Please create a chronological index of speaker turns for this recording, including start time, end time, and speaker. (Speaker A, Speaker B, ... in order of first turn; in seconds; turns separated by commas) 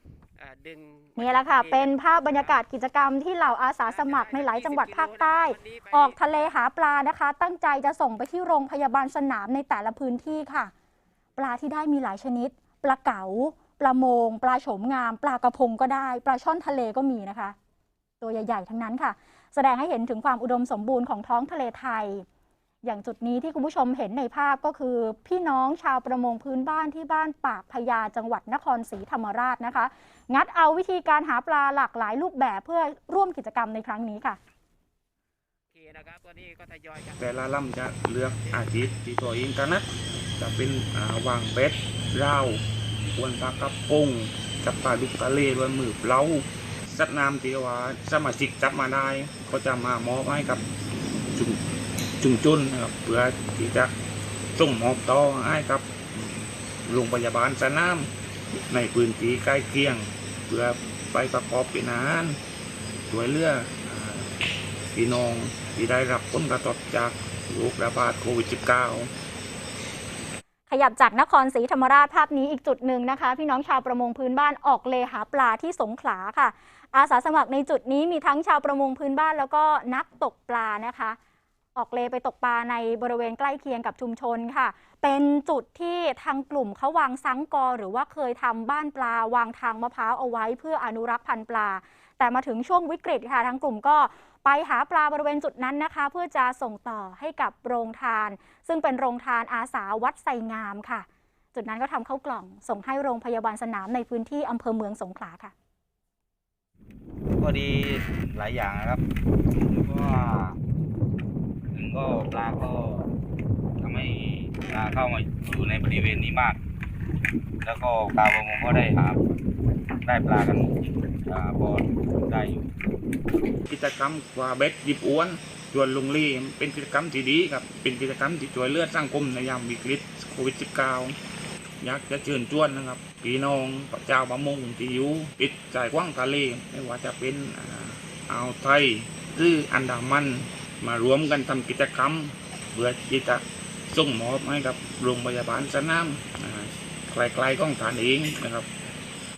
Speaker A: 0.4-2.5, Speaker B: 1.2-10.7, Speaker A: 3.8-6.2, Speaker B: 11.4-17.6, Speaker B: 18.2-22.2, Speaker B: 22.8-34.4, Speaker A: 35.7-38.7, Speaker C: 37.2-50.7, Speaker C: 51.3-51.6, Speaker C: 52.2-53.9, Speaker C: 54.6-58.1, Speaker C: 58.7-62.4, Speaker C: 63.1-64.3, Speaker C: 64.9-69.1, Speaker B: 70.7-81.2, Speaker B: 81.8-105.5, Speaker D: 107.4-109.0, Speaker D: 109.6-110.6, Speaker D: 111.7-113.1, Speaker D: 113.8-116.6, Speaker D: 117.6-119.2, Speaker D: 120.0-122.7, Speaker C: 123.7-131.2, Speaker C: 131.8-148.7